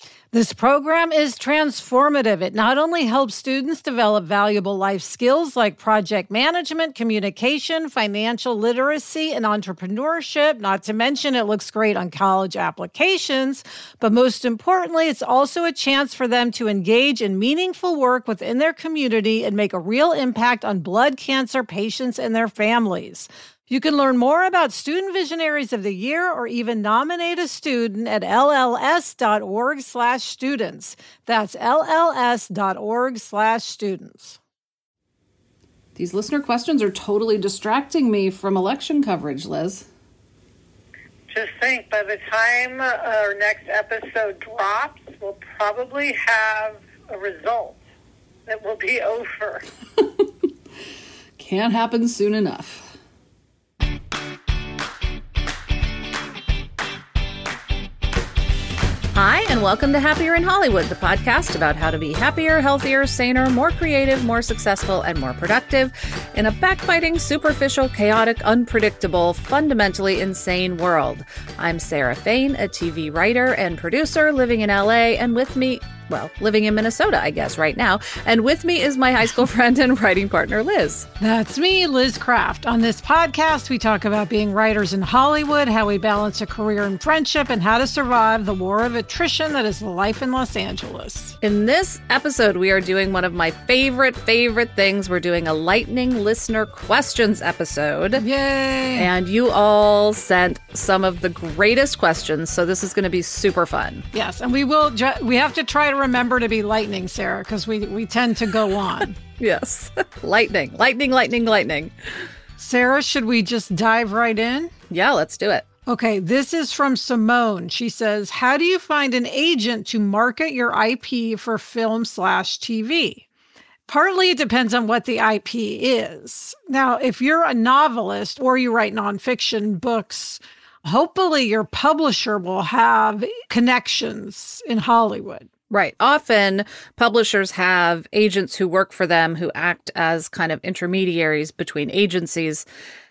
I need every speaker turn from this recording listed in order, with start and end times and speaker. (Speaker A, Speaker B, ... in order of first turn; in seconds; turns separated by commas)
Speaker A: 0.3-34.4, Speaker B: 36.0-39.9, Speaker C: 41.3-47.8, Speaker C: 48.5-49.7, Speaker B: 51.4-52.9, Speaker B: 59.1-81.1, Speaker A: 81.2-91.3, Speaker B: 91.4-98.2, Speaker A: 98.2-99.1, Speaker B: 98.9-104.0, Speaker A: 104.1-109.2, Speaker B: 109.3-111.9, Speaker A: 112.6-114.7, Speaker B: 114.9-115.7, Speaker A: 115.8-123.2, Speaker A: 123.9-135.5, Speaker B: 135.7-142.7